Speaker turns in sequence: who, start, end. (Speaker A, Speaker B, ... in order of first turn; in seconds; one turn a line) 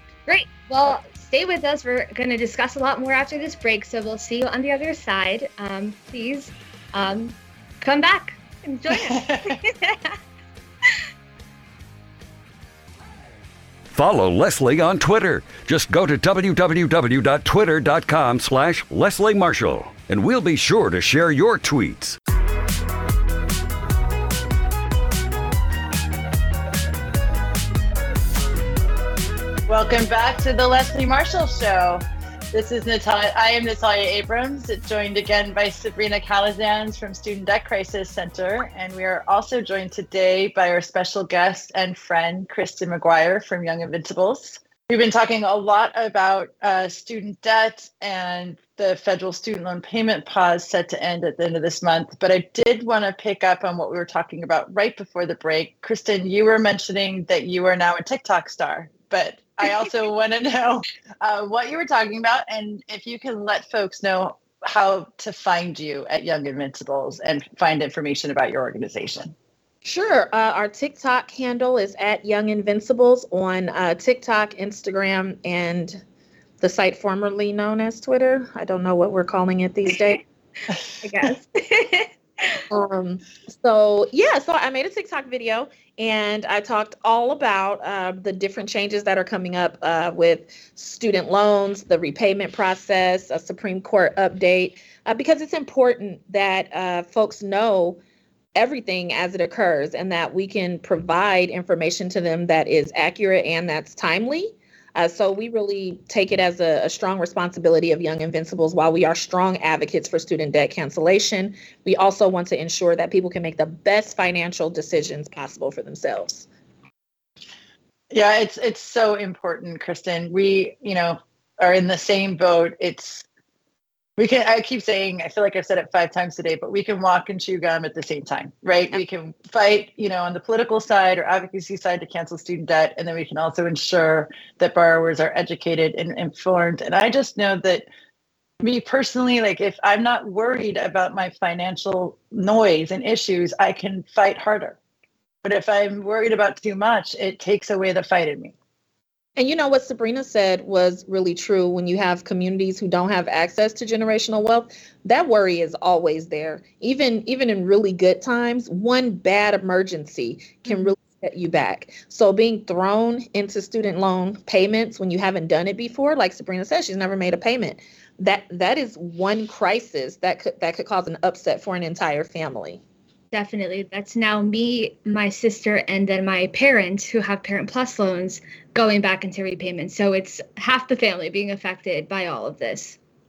Speaker A: 0.3-10.1
Speaker B: 9.1-9.6
Speaker C: 13.9-22.2
Speaker B: 29.7-69.3
Speaker D: 69.8-76.0
Speaker D: 76.6-80.2
Speaker A: 81.0-82.6
Speaker D: 82.7-98.0
Speaker D: 98.5-116.5
Speaker B: 118.1-123.3
Speaker B: 124.2-137.9
Speaker B: 138.6-144.8
Speaker B: 145.4-148.5
Speaker D: 149.4-172.8
Speaker A: 160.7-160.9
Speaker A: 173.3-183.0